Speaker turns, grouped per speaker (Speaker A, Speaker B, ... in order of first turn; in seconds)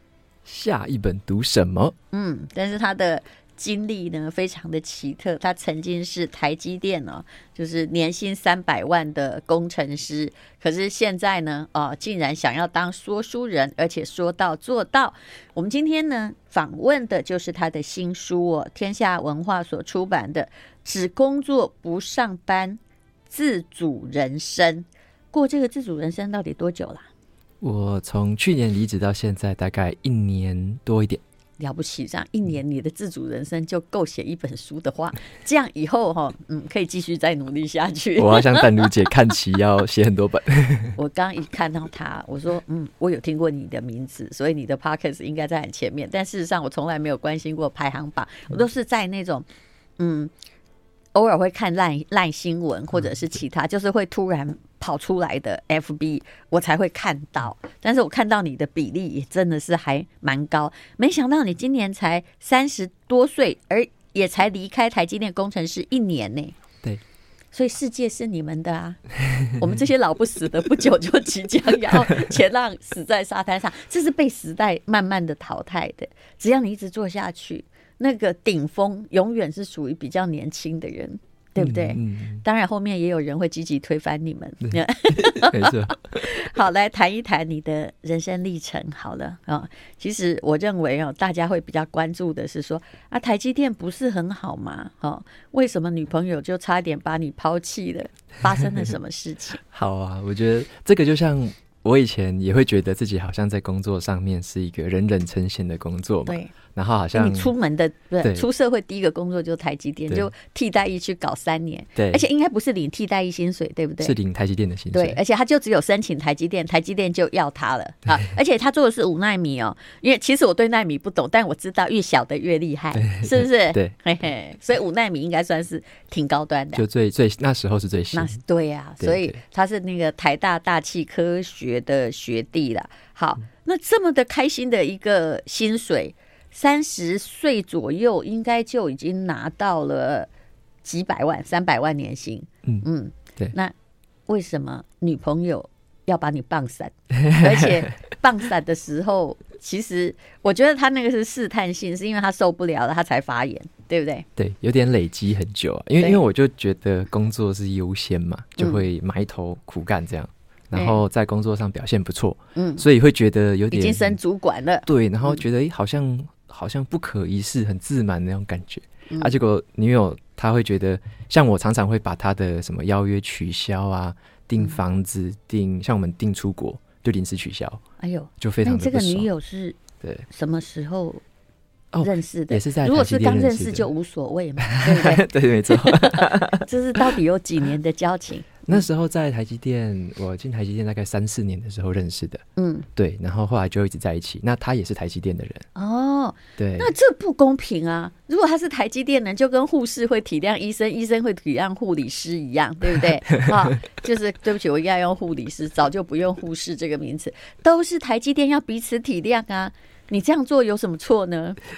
Speaker A: 0.4-1.9, 27.6-31.2, 38.2-41.0, 81.6-82.4, 84.6-86.5, 99.6-107.5, 112.0-112.2, 114.0-115.2, 122.9-123.9, 126.8-128.3, 129.0-129.4, 147.2-147.9, 154.4-164.2, 164.8-177.8, 178.4-179.3, 181.9-183.9, 184.6-187.1, 188.7-192.4, 192.9-195.7, 196.6-196.9, 203.4-203.7
Speaker B: 2.1-27.1, 31.6-38.9, 41.0-49.4, 50.0-50.3, 51.1-66.5, 67.5-99.6, 106.2-106.5, 107.1-114.2, 114.9-126.8, 128.1-140.3, 140.8-143.7, 144.3-154.2, 158.6-158.8, 160.7-161.0, 162.6-162.8, 163.7-165.4, 169.1-169.3, 178.0-181.2, 182.0-188.8, 192.6-192.9, 195.7-211.6